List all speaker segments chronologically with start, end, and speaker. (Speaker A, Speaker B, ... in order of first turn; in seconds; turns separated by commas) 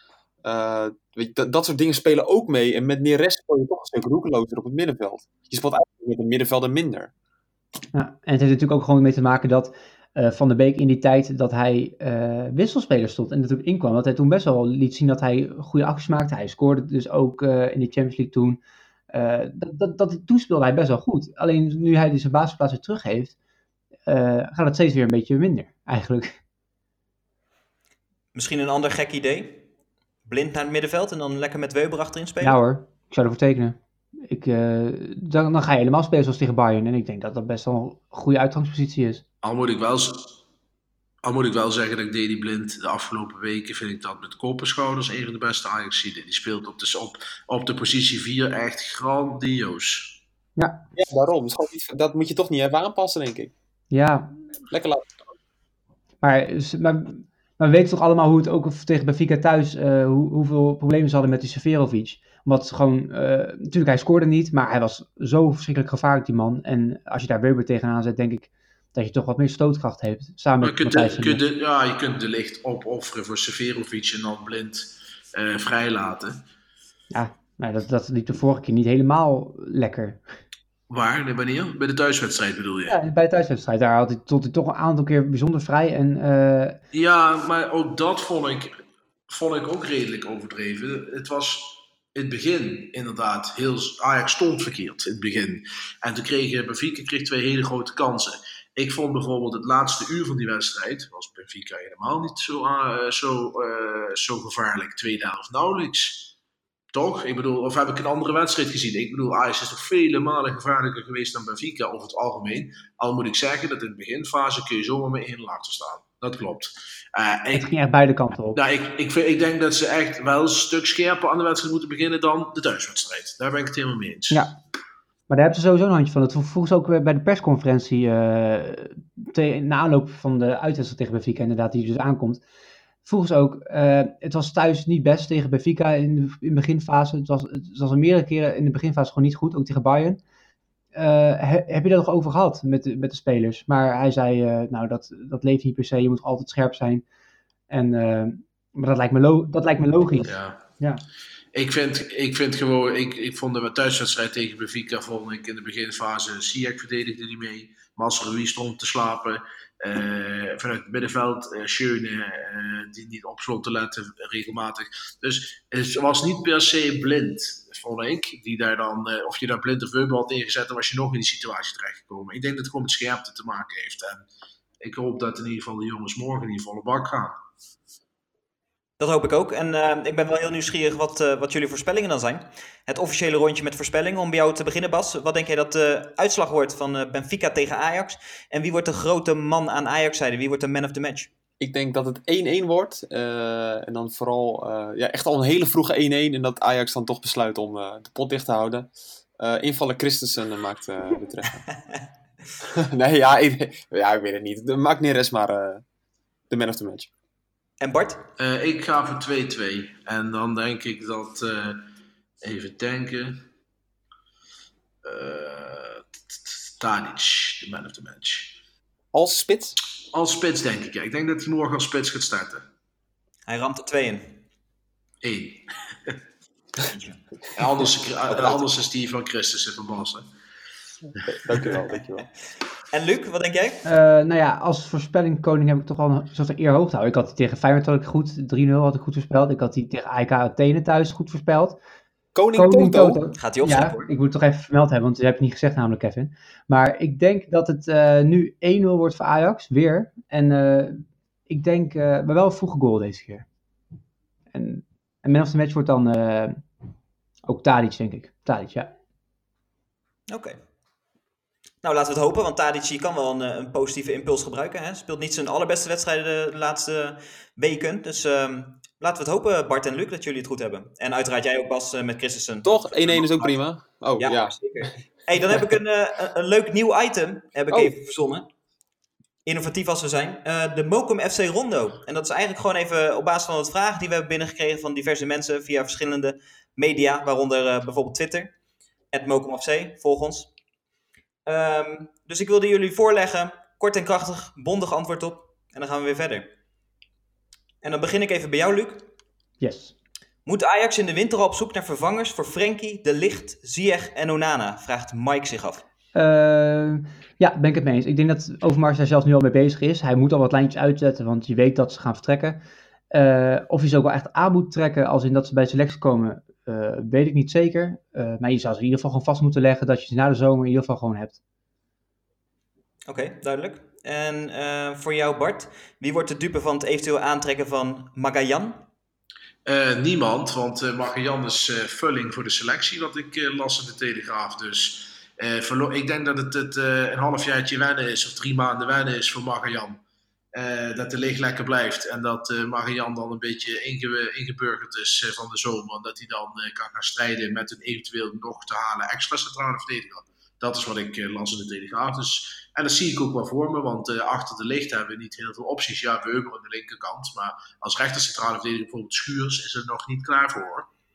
Speaker A: 0.4-7.1, Speaker B: 7.9-18.6, Speaker B: 19.1-23.3, Speaker B: 24.1-26.4, Speaker C: 28.3-29.6, Speaker C: 30.2-32.6, Speaker B: 32.4-39.2, Speaker D: 39.4-40.3, Speaker D: 41.2-50.2, Speaker B: 50.6-50.8, Speaker A: 51.0-53.5, Speaker B: 53.9-54.3, Speaker A: 54.7-55.1, Speaker B: 56.2-71.4, Speaker D: 70.6-76.4, Speaker B: 77.1-80.2, Speaker D: 80.9-83.0, Speaker B: 82.9-86.8, Speaker D: 86.9-88.8, Speaker D: 89.3-106.3, Speaker D: 106.9-117.7, Speaker B: 117.5-118.6, Speaker D: 118.5-124.5, Speaker B: 124.3-124.5, Speaker B: 125.3-132.4, Speaker B: 133.0-140.2, Speaker B: 140.9-147.0, Speaker B: 147.7-151.0, Speaker D: 150.2-150.6, Speaker D: 151.5-174.2, Speaker D: 174.8-177.3, Speaker C: 179.0-191.3, Speaker A: 191.6-201.7, Speaker A: 202.6-205.8, Speaker A: 206.5-207.1, Speaker C: 207.8-208.2, Speaker D: 208.4-211.8, Speaker D: 212.4-213.4, Speaker D: 215.0-218.6, Speaker A: 219.1-219.8, Speaker D: 220.1-222.7, Speaker C: 223.5-224.4, Speaker D: 225.2-226.2, Speaker C: 226.9-227.2, Speaker D: 227.6-230.2, Speaker C: 228.3-228.6, Speaker A: 231.2-232.3, Speaker C: 232.9-233.8, Speaker B: 233.8-241.8, Speaker A: 242.3-243.2, Speaker B: 242.6-253.4, Speaker C: 243.4-244.1, Speaker B: 254.5-256.6, Speaker B: 257.4-258.9, Speaker C: 260.3-260.6, Speaker C: 261.8-273.5, Speaker A: 272.6-274.9, Speaker C: 274.2-278.5, Speaker C: 279.4-288.5, Speaker C: 289.1-290.5, Speaker C: 291.4-296.5, Speaker C: 297.8-299.0, Speaker B: 299.6-299.9, Speaker C: 300.4-305.8, Speaker B: 306.1-312.6, Speaker B: 313.1-321.4, Speaker C: 323.1-328.8, Speaker D: 329.6-340.0, Speaker D: 340.5-360.9